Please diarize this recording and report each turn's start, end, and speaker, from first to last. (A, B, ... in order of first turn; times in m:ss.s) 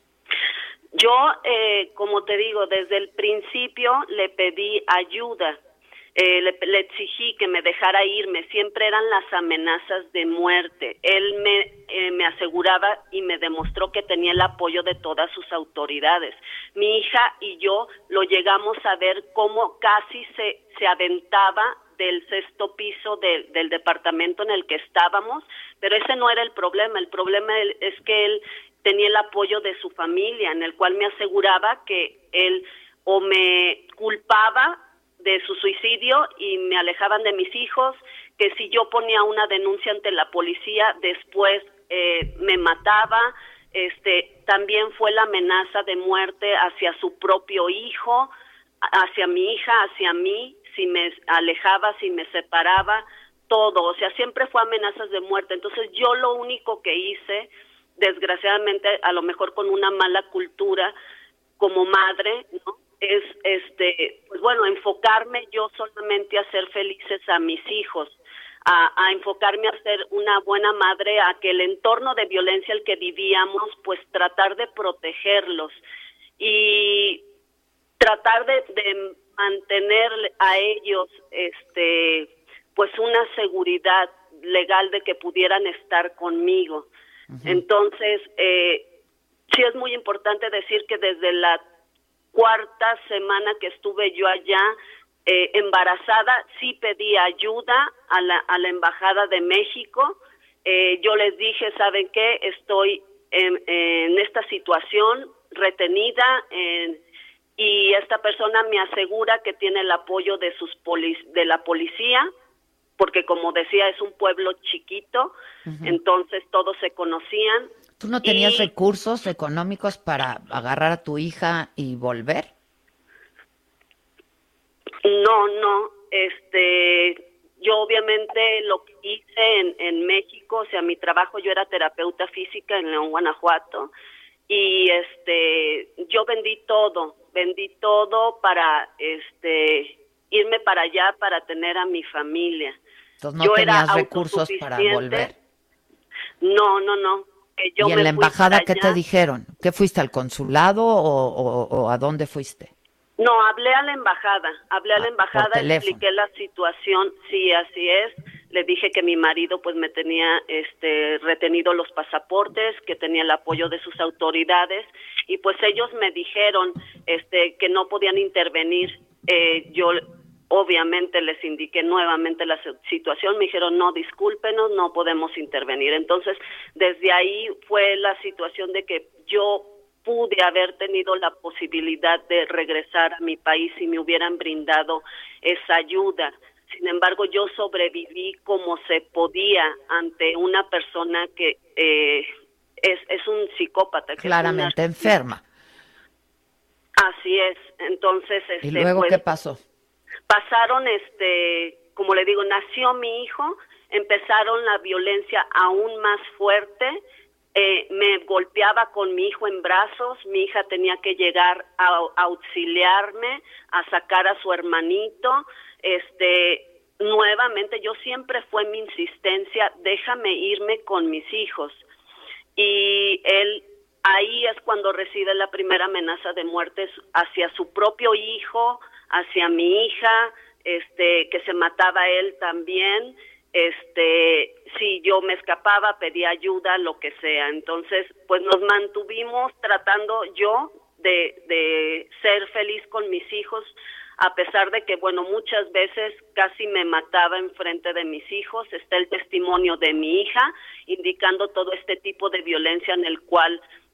0:01.0-0:05.6 A
0:06.2-0:48.3 A
0:48.8-1:00.9 A
1:01.6-1:15.8 A
1:16.4-1:17.2 A
1:18.0-1:26.9 A
1:27.3-1:27.6 B
1:27.4-1:28.9 A
1:29.5-1:31.6 A
1:32.3-1:34.7 A
1:35.3-1:47.0 A
1:47.6-1:52.3 A
1:53.0-1:55.3 A
1:55.7-1:56.0 B
1:55.8-1:57.7 A
1:58.0-2:02.5 B
1:58.2-1:58.7 A
2:05.0-2:13.9 A
2:14.5-2:22.8 A
2:23.2-2:25.4 B
2:23.4-2:25.3 A
2:26.4-2:29.0 A
2:27.8-2:32.7 B
2:33.2-3:12.3 A
2:35.0-2:36.0 B
3:12.8-3:14.8 A
3:14.2-3:15.4 B
3:17.0-3:19.2 A
3:18.6-3:19.6 B
3:20.3-3:27.0 A
3:27.6-3:41.8 A
3:42.6-4:13.6 A